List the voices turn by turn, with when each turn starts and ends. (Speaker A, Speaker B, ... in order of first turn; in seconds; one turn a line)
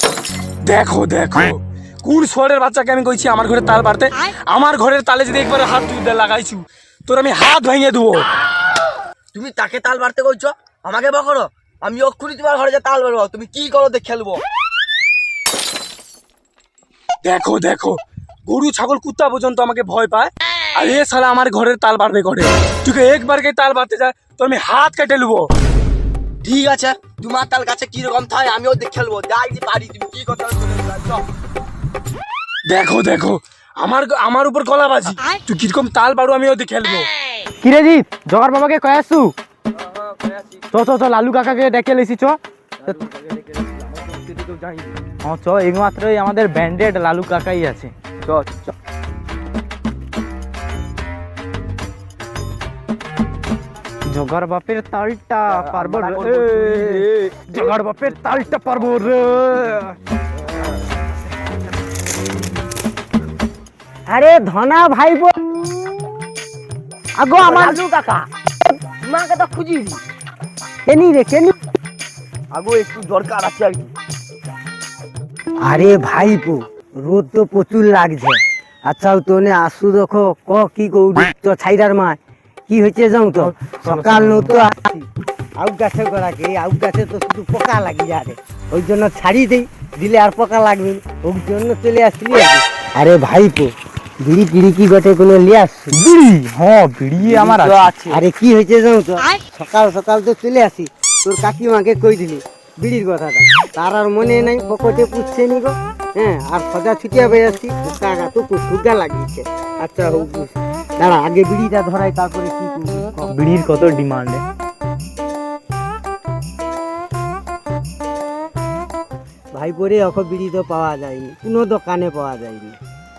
Speaker A: 0.6-8.2
Speaker B: 9.3-14.4
Speaker A: 17.2-25.5
Speaker B: 26.4-31.2
Speaker A: 32.7-37.1
Speaker C: 37.6-39.3
Speaker B: 39.7-40.6
Speaker C: 40.7-42.4
Speaker B: 42.8-45.0
Speaker C: 45.2-47.9
Speaker B: 48.2-48.7
Speaker C: 54.1-59.9
Speaker B: 55.5-57.4
Speaker D: 64.1-66.0
Speaker D: 67.2-68.1
Speaker B: 67.4-68.2
Speaker B: 69.0-70.0
Speaker D: 70.8-71.5
Speaker B: 72.5-73.9
Speaker D: 75.6-85.0
Speaker C: 83.3-84.6
Speaker D: 85.6-96.0
Speaker C: 95.9-97.9
Speaker B: 97.2-98.2
Speaker D: 98.1-113.3
Speaker C: 113.3-114.4
Speaker D: 119.5-122.8